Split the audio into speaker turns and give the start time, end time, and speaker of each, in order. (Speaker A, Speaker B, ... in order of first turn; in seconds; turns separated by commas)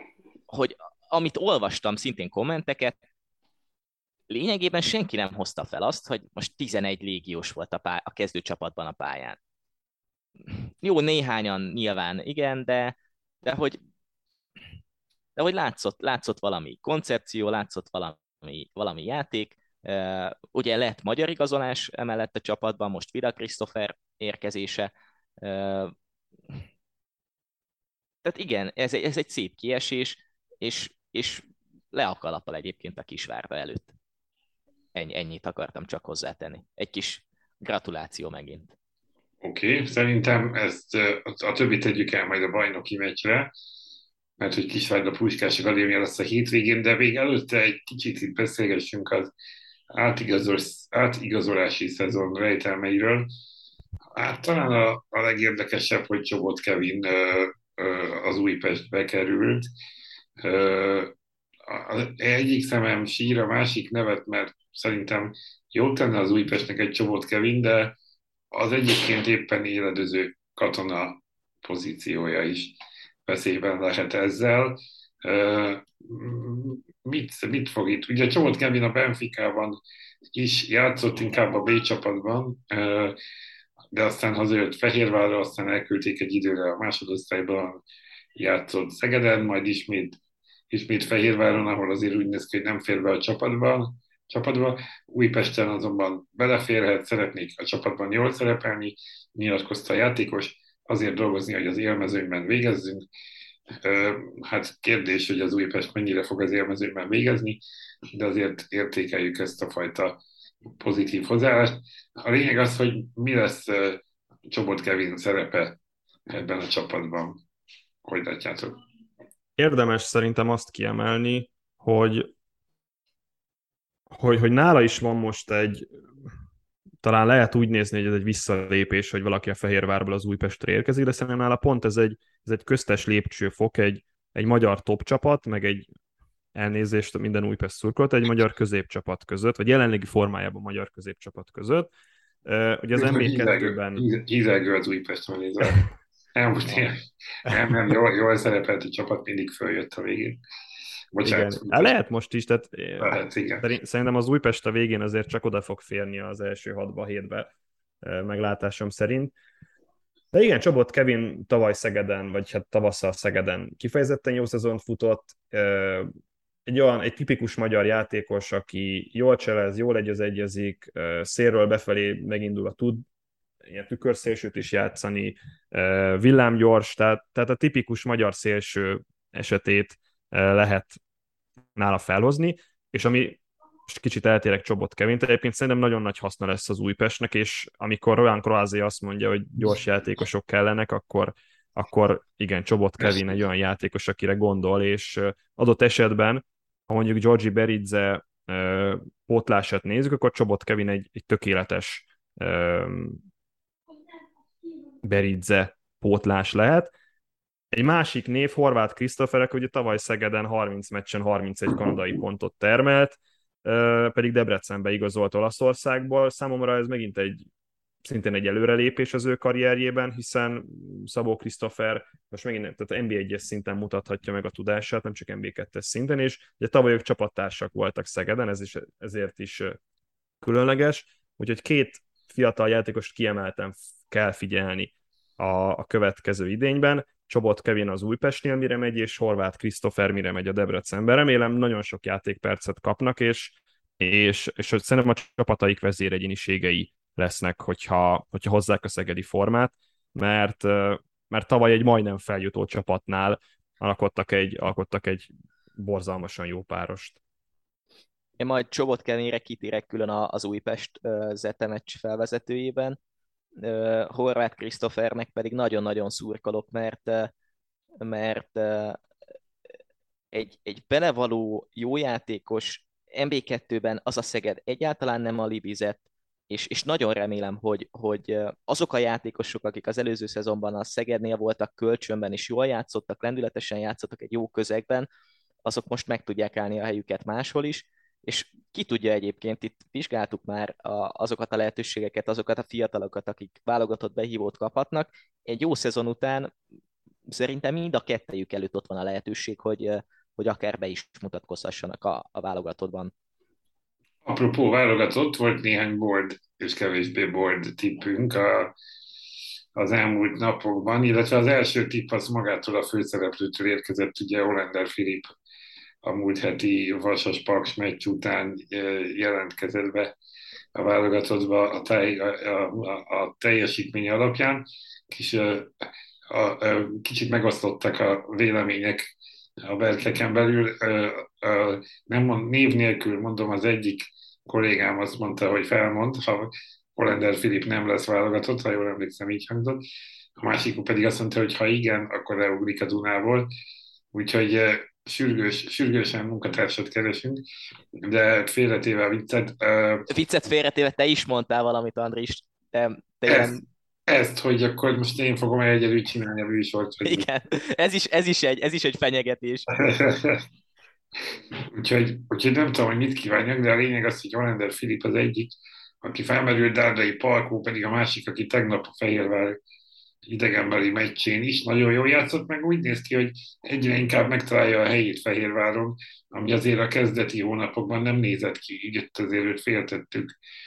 Speaker A: 0.5-2.9, Speaker A: 4.3-9.4, Speaker A: 10.5-13.8, Speaker A: 15.3-24.9, Speaker A: 25.4-25.9, Speaker A: 28.2-33.9, Speaker A: 34.9-38.7, Speaker B: 39.4-43.5, Speaker B: 44.4-49.3, Speaker B: 49.9-53.3, Speaker B: 54.1-59.7, Speaker B: 60.4-61.1, Speaker B: 61.7-68.0, Speaker B: 68.5-79.8, Speaker B: 80.3-83.2, Speaker B: 83.9-87.8, Speaker B: 88.3-90.2, Speaker B: 90.7-103.0, Speaker B: 103.8-107.6, Speaker B: 108.1-110.2, Speaker B: 110.8-115.8, Speaker B: 116.3-117.4, Speaker B: 118.0-118.8, Speaker C: 119.6-122.3, Speaker C: 124.1-125.9, Speaker C: 127.0-135.9, Speaker C: 136.5-141.9, Speaker C: 142.4-144.0, Speaker B: 142.9-150.4, Speaker C: 147.5-148.0, Speaker B: 151.1-151.9, Speaker C: 151.2-159.3, Speaker B: 153.0-153.6, Speaker C: 160.3-166.1, Speaker C: 166.7-173.0, Speaker C: 173.6-181.0, Speaker C: 181.8-203.2, Speaker B: 193.0-193.3, Speaker C: 205.0-206.9, Speaker C: 207.7-217.5, Speaker C: 218.0-229.8, Speaker C: 230.4-257.2, Speaker A: 258.4-263.0, Speaker A: 263.6-267.3, Speaker A: 268.0-269.0, Speaker A: 270.3-285.1, Speaker A: 285.6-296.5, Speaker A: 297.3-303.1, Speaker B: 304.2-308.7, Speaker B: 309.8-315.3, Speaker B: 316.0-320.1, Speaker B: 320.7-329.1, Speaker B: 329.6-339.8, Speaker B: 340.4-343.5, Speaker B: 344.1-347.4, Speaker B: 347.9-350.1, Speaker A: 350.1-353.6, Speaker B: 353.3-357.2, Speaker A: 357.0-359.8, Speaker B: 359.7-360.4, Speaker B: 361.6-369.6, Speaker B: 370.2-380.3